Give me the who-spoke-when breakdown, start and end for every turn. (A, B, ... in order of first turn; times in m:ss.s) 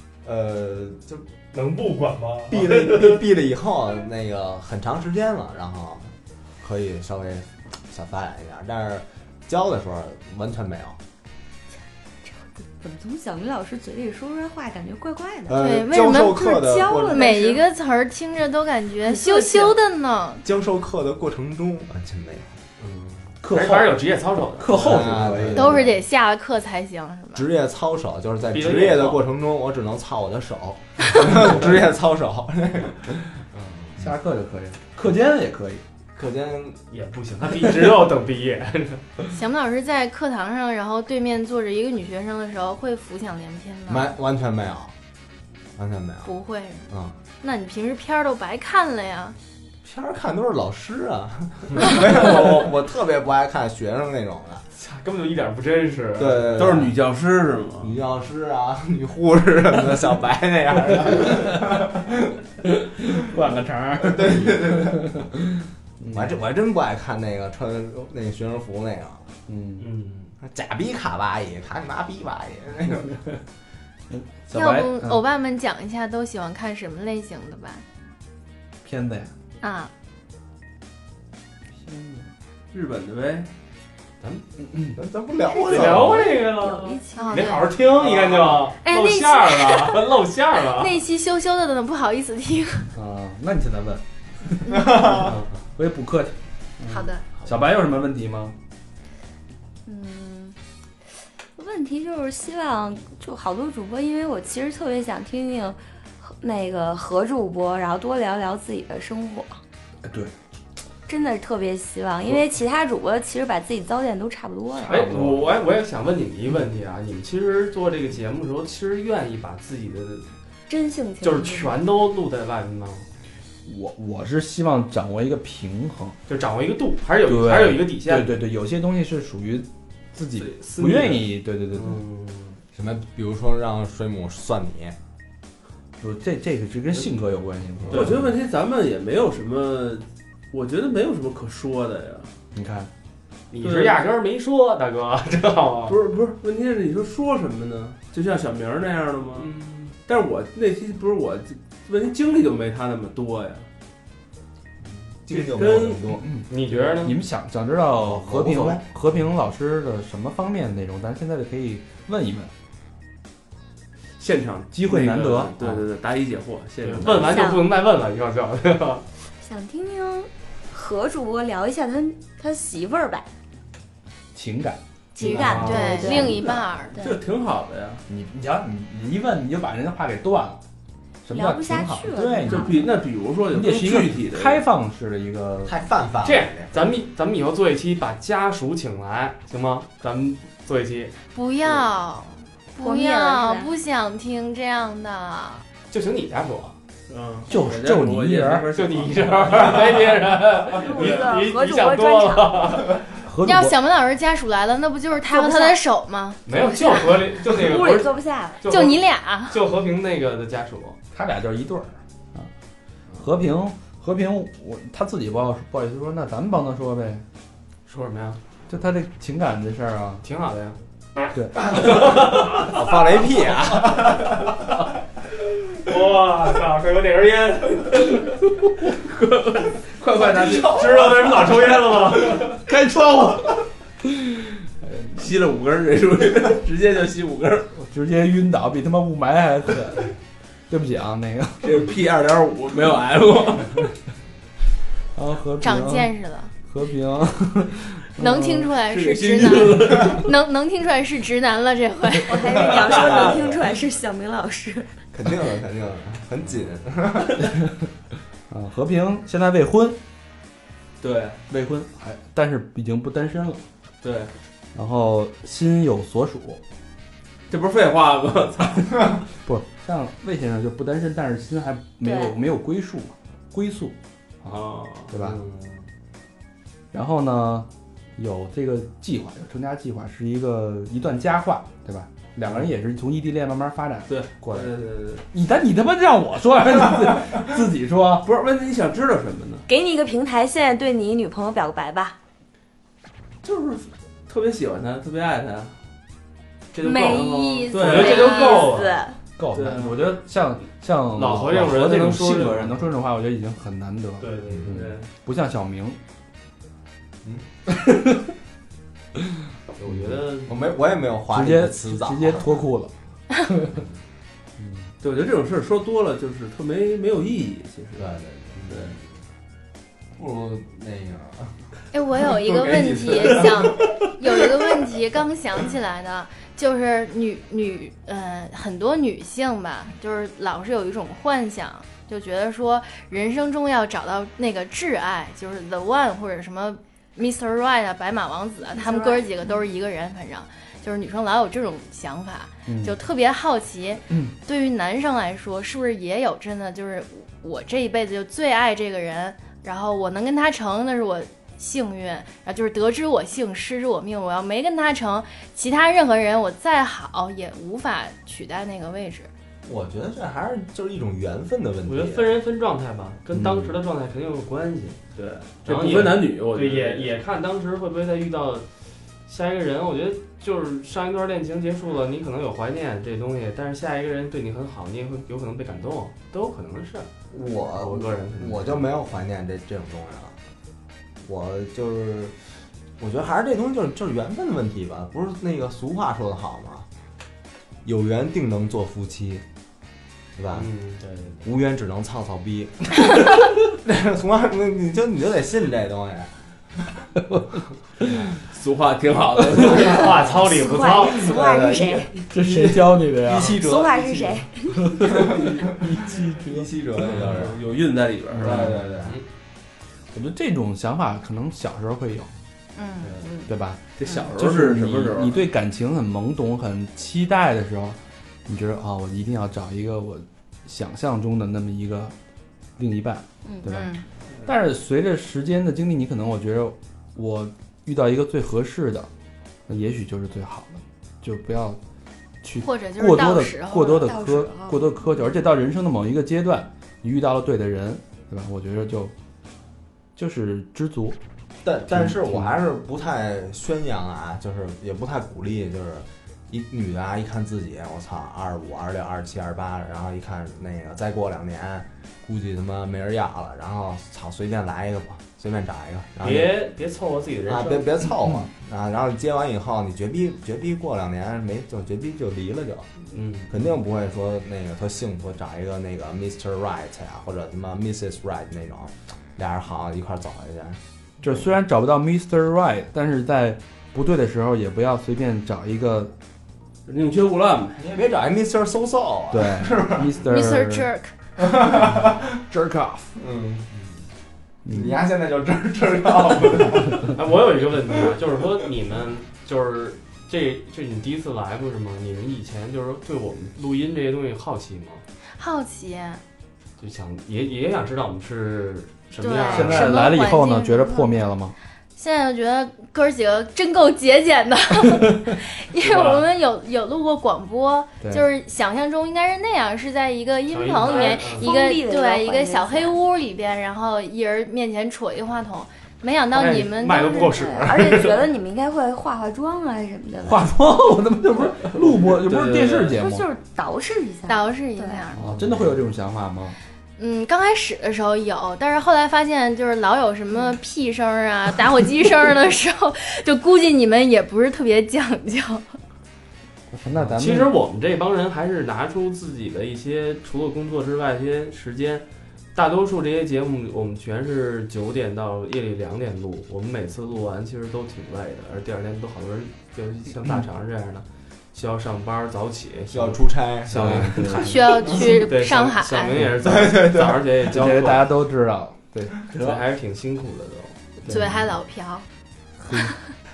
0:00.2-0:01.1 A
0:01.1-0:03.2 B
0:02.5-0:11.0 A
0:12.2-0:15.6 C
0:15.5-0:17.3 A
0:15.5-0:20.4 D
0:16.5-0:17.6 C
0:19.0-0:19.8 C
0:20.4-0:22.6 A
0:22.8-0:25.4 B
0:23.4-0:25.9 E
0:24.7-0:26.0 A
0:25.5-0:27.4 D
0:27.3-0:33.2 A
0:28.5-0:29.3 B
0:33.5-0:33.8 B
0:34.0-0:35.8 E
0:36.2-0:36.8 A
0:36.8-0:39.2 B
0:39.3-0:44.1 D
0:43.9-0:44.9 A
0:45.8-0:46.3 A
0:46.2-0:46.9 D
0:46.9-0:47.2 A
0:47.4-0:49.4 D
0:49.8-0:54.6 A
0:54.7-0:56.7 B
0:56.2-0:57.0 A
0:56.5-0:58.0 F
0:57.8-1:02.4 A
1:02.6-1:06.4 E
1:04.0-1:05.2 A
1:06.1-1:09.2 A
1:09.5-1:09.8 E
1:09.8-1:10.3 B
1:10.4-1:13.2 A
1:14.1-1:15.2 E
1:14.5-1:17.8 D
1:18.8-1:19.3 E
1:19.6-1:19.9 D
1:21.8-1:22.3 E
1:22.7-1:23.5 F
1:24.7-1:25.0 E
1:24.9-1:26.4 A
1:25.4-1:27.7 C
1:25.6-1:31.0 B
1:27.2-1:27.7 D
1:28.0-1:28.6 A
1:28.8-1:30.1 D
1:30.7-1:32.9 D
1:32.9-1:38.6 E
1:34.7-1:35.3 A
1:35.1-1:35.6 B
1:36.9-1:37.2 D
1:39.8-1:40.6 C
1:41.6-1:49.6 C
1:50.1-1:50.3 E
1:51.1-1:55.0 C
1:54.8-1:55.4 E
1:54.8-2:00.3 B
2:00.7-2:01.7 C
2:01.2-2:03.1 B
2:03.6-2:06.2 E
2:06.3-2:08.4 B
2:07.2-2:12.0 E
2:10.4-2:12.6 B
2:12.7-2:15.0 A
2:16.0-2:18.2 E
2:17.9-2:18.2 B
2:17.9-2:22.3 F
2:22.5-2:22.9 E
2:23.5-2:26.0 B
2:23.6-2:24.0 F
2:25.9-2:29.5 F
2:29.3-2:30.0 B
2:30.0-2:33.7 F
2:35.2-2:36.2 A
2:35.3-2:36.1 F
2:36.1-2:42.5 E
2:36.5-2:37.2 B
2:38.0-2:38.8 A
2:44.2-2:47.5 F
2:44.7-2:45.6 E
2:46.8-2:49.0 B
2:47.1-2:47.7 C
2:49.4-2:53.2 C
2:54.3-2:54.8 E
2:55.2-2:57.2 C
2:55.2-2:56.9 D
2:55.2-2:56.2 A
2:55.3-2:56.3 B
2:57.0-2:58.0 F
2:58.1-3:00.6 E
3:01.2-3:02.8 E
3:01.3-3:02.9 C
3:02.5-3:04.6 F
3:03.5-3:05.7 E
3:05.6-3:06.7 A
3:06.2-3:11.1 B
3:11.3-3:15.6 D
3:12.8-3:13.7 C
3:15.9-3:16.8 B
3:17.1-3:20.2 F
3:17.5-3:18.6 E
3:18.7-3:23.0 B
3:20.7-3:22.9 C
3:23.2-3:23.7 E
3:23.4-3:27.1 D
3:25.2-3:25.8 C
3:26.5-3:31.0 B
3:26.5-3:28.6 C
3:28.7-3:29.6 D
3:31.1-3:32.5 E
3:33.2-3:37.2 E
3:37.8-3:38.4 B
3:38.7-3:40.2 E
3:40.2-3:40.8 B
3:41.3-3:42.0 E
3:41.6-3:44.5 A
3:41.7-3:42.8 B
3:45.7-3:48.1 B
3:48.9-3:51.2 F
3:50.3-3:51.5 A
3:50.4-3:52.6 B
3:52.5-3:54.9 E
3:55.1-3:57.8 F
3:57.9-4:00.1 E
4:00.7-4:01.8 E
4:01.6-4:03.9 F
4:05.1-4:06.1 E
4:05.6-4:06.5 D
4:06.6-4:08.7 E
4:08.2-4:12.6 D
4:08.8-4:10.3 F
4:12.2-4:15.0 C
4:12.6-4:13.6 A
4:12.6-4:13.5 F
4:15.1-4:17.6 A
4:18.5-4:20.0 E
4:21.0-4:21.4 F
4:21.5-4:23.6 E
4:24.0-4:24.3 F
4:24.7-4:26.6 E
4:27.5-4:29.2 F
4:29.4-4:35.4 E
4:32.0-4:32.3 C
4:34.4-4:35.2 F
4:35.2-4:35.8 B
4:36.9-4:44.8 E
4:44.1-4:45.2 F
4:45.3-4:48.2 E
4:48.2-4:49.7 F
4:49.7-4:52.2 C
4:53.4-4:55.8 F
4:56.7-4:59.0 B
4:56.8-4:59.2 C
4:57.7-4:58.7 F
4:58.1-4:58.7 D
4:59.4-5:06.0 E
4:59.5-5:00.0 F
5:01.1-5:02.8 B
5:04.2-5:04.8 B
5:04.5-5:04.7 A
5:04.6-5:05.1 F
5:09.8-5:10.5 B
5:09.9-5:12.6 A
5:11.3-5:12.9 E
5:13.4-5:13.7 E
5:14.6-5:14.9 E
5:15.0-5:18.9 F
5:17.9-5:19.0 A
5:20.1-5:21.5 A
5:21.9-5:59.3 D
5:22.5-5:23.7 A
5:22.7-5:23.7 F
5:38.7-5:39.5 C
5:42.7-5:43.0 E
5:59.6-6:02.3 A
6:01.8-6:05.0 B
6:03.3-6:03.8 E
6:05.1-6:07.1 F
6:05.6-6:08.7 B
6:09.3-6:17.1 B
6:17.3-6:20.4 A
6:17.7-6:18.9 B
6:21.2-6:22.4 A
6:23.0-6:26.8 A
6:27.8-6:29.4 A
6:30.4-6:30.7 A
6:30.5-6:31.5 B
6:31.4-6:37.0 A
6:38.4-6:40.4 F
6:39.6-6:41.4 B
6:40.4-6:42.2 C
6:41.1-6:47.6 A
6:42.3-6:43.6 E
6:43.5-6:44.9 C
6:44.7-6:46.7 E
6:47.1-6:48.8 F
6:48.3-6:48.8 E
6:48.4-6:49.2 A
6:50.1-6:52.3 E
6:52.8-6:53.2 D
6:53.2-6:53.5 C
6:53.5-7:02.1 E
6:54.0-6:55.4 F
7:02.8-7:03.9 E
7:03.5-7:03.8 C
7:03.7-7:04.0 D
7:04.4-7:09.1 E
7:09.7-7:11.8 E
7:12.4-7:19.1 E
7:12.6-7:14.1 D
7:13.8-7:15.4 C
7:20.2-7:21.2 E
7:21.6-7:36.5 A
7:21.9-7:22.6 E
7:36.2-7:38.0 B
7:37.5-7:42.9 A
7:38.2-7:38.5 E
7:43.1-7:43.5 B
7:43.5-7:51.4 A
7:51.2-7:56.1 E
7:56.8-7:57.8 F
7:57.8-8:00.1 A
7:59.3-8:00.9 E
8:00.2-8:01.1 D
8:01.4-8:02.2 A
8:01.6-8:01.9 E
8:02.4-8:03.1 E
8:03.2-8:03.7 A
8:04.6-8:05.0 E
8:04.7-8:07.1 A
8:06.9-8:15.0 B
8:15.4-8:16.2 D
8:16.8-8:19.9 B
8:19.2-8:21.1 D
8:19.5-8:21.5 E
8:22.0-8:37.4 D
8:25.8-8:26.2 B
8:30.5-8:31.5 B
8:31.0-8:33.0 C
8:36.3-8:38.2 B
8:36.9-8:40.5 C
8:40.2-8:43.3 E
8:42.1-8:42.9 B
8:42.9-8:45.1 C
8:44.3-8:45.3 D
8:45.1-8:46.6 E
8:47.0-8:55.8 D
8:56.7-8:57.5 E
8:56.9-9:18.1 B
9:12.9-9:14.1 A
9:13.7-9:14.6 E
9:14.4-9:16.2 D
9:16.4-9:17.2 A
9:17.4-9:19.1 E
9:19.3-9:19.6 F
9:19.3-9:20.8 B
9:21.0-9:21.5 E
9:21.1-9:22.0 D
9:22.6-9:22.9 E